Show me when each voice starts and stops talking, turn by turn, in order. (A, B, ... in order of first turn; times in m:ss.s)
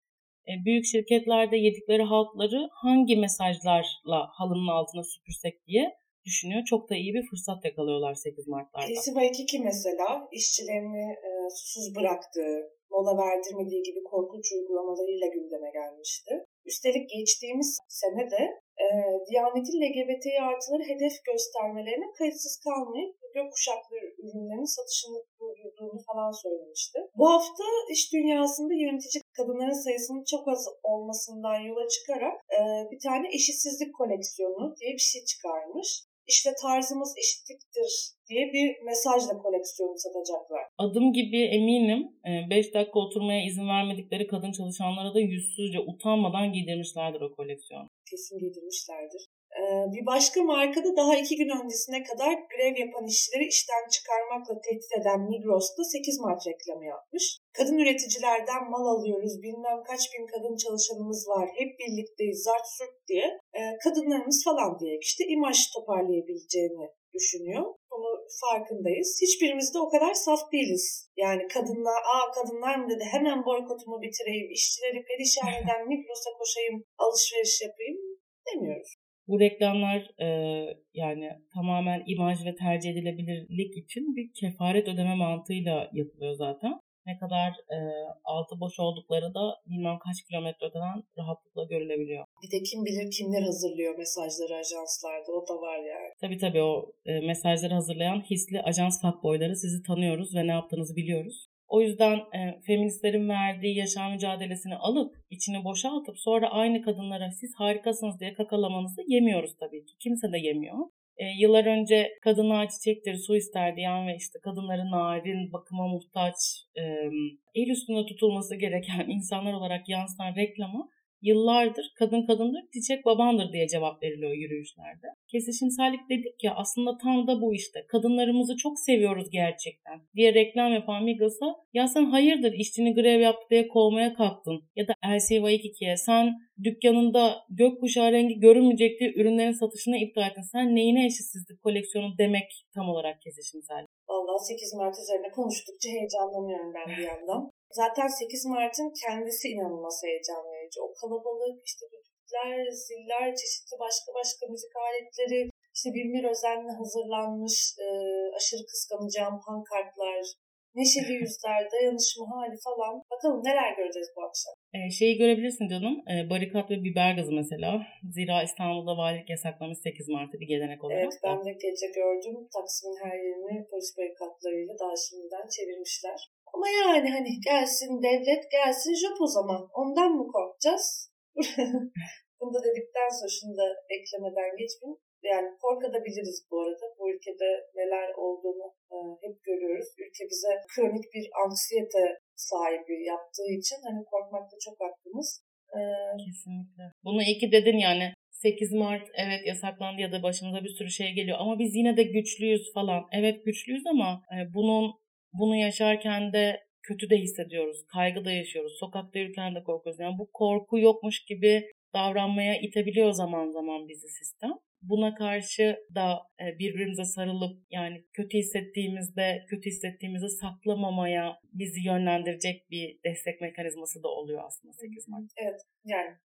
0:00.4-0:09.0 A
0:08.8-0:40.7 B
0:40.8-0:47.9 A
0:48.0-1:18.9 B
1:19.3-1:32.2 A
1:32.4-1:36.1 B
1:36.2-2:23.9 A
2:24.1-2:44.5 B
2:44.7-2:51.4 A
2:50.9-3:01.8 B
3:02.4-3:16.2 B
3:16.2-3:45.2 A
3:44.8-3:46.1 B